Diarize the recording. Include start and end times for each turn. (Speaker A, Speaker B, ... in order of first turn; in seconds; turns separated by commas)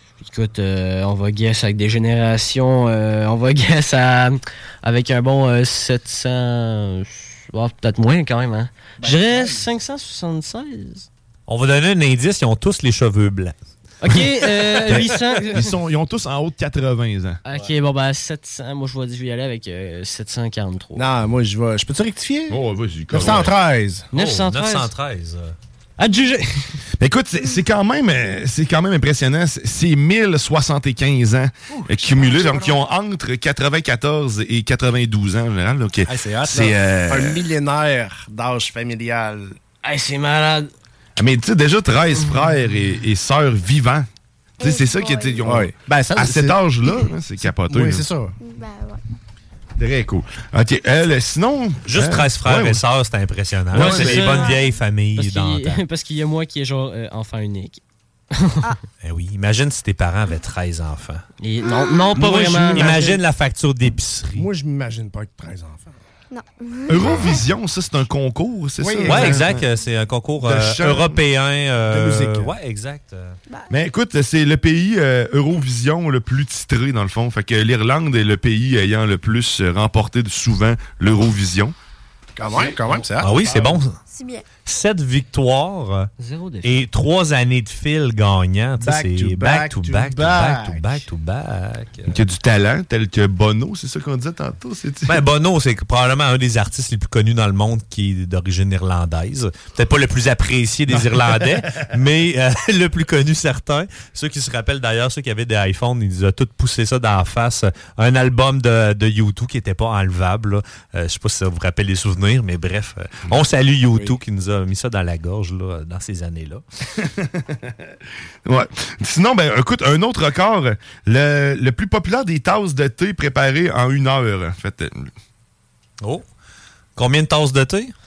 Speaker A: 0.2-11.1, Speaker B: 9.0-9.7, Speaker C: 11.5-13.6, Speaker A: 14.0-15.7, Speaker D: 14.9-17.4, Speaker A: 17.4-21.1, Speaker B: 20.9-22.6, Speaker D: 22.5-23.5, Speaker B: 23.1-24.1, Speaker A: 24.1-24.9, Speaker C: 24.1-25.5, Speaker A: 26.0-26.8, Speaker D: 27.0-37.4, Speaker B: 31.7-32.8, Speaker B: 36.1-39.6, Speaker A: 39.8-40.7, Speaker D: 41.2-44.1, Speaker E: 44.6-45.5, Speaker D: 44.6-48.0, Speaker B: 45.4-46.6, Speaker B: 47.4-48.4, Speaker E: 48.4-49.0, Speaker D: 49.8-52.8, Speaker C: 51.9-55.8, Speaker D: 53.7-54.3, Speaker A: 53.7-54.6, Speaker E: 54.2-54.8, Speaker A: 55.1-57.8, Speaker A: 58.3-58.7, Speaker C: 59.0-61.2, Speaker A: 61.4-63.2, Speaker E: 61.6-62.2, Speaker C: 62.2-64.5, Speaker B: 62.3-63.1, Speaker B: 64.3-65.9, Speaker E: 66.3-67.5, Speaker D: 66.9-69.6, Speaker B: 68.8-69.5, Speaker C: 69.1-73.4, Speaker D: 70.4-71.2, Speaker B: 71.9-72.5, Speaker D: 73.7-81.7, Speaker B: 82.3-83.6, Speaker D: 82.5-82.8, Speaker C: 83.2-84.0, Speaker E: 84.1-84.4, Speaker C: 84.6-86.1, Speaker A: 86.2-86.8, Speaker C: 86.6-92.2, Speaker B: 88.8-91.0, Speaker D: 92.1-95.2, Speaker C: 95.1-116.6, Speaker B: 113.9-114.2, Speaker D: 117.0-117.7, Speaker D: 118.4-125.1, Speaker C: 127.0-127.9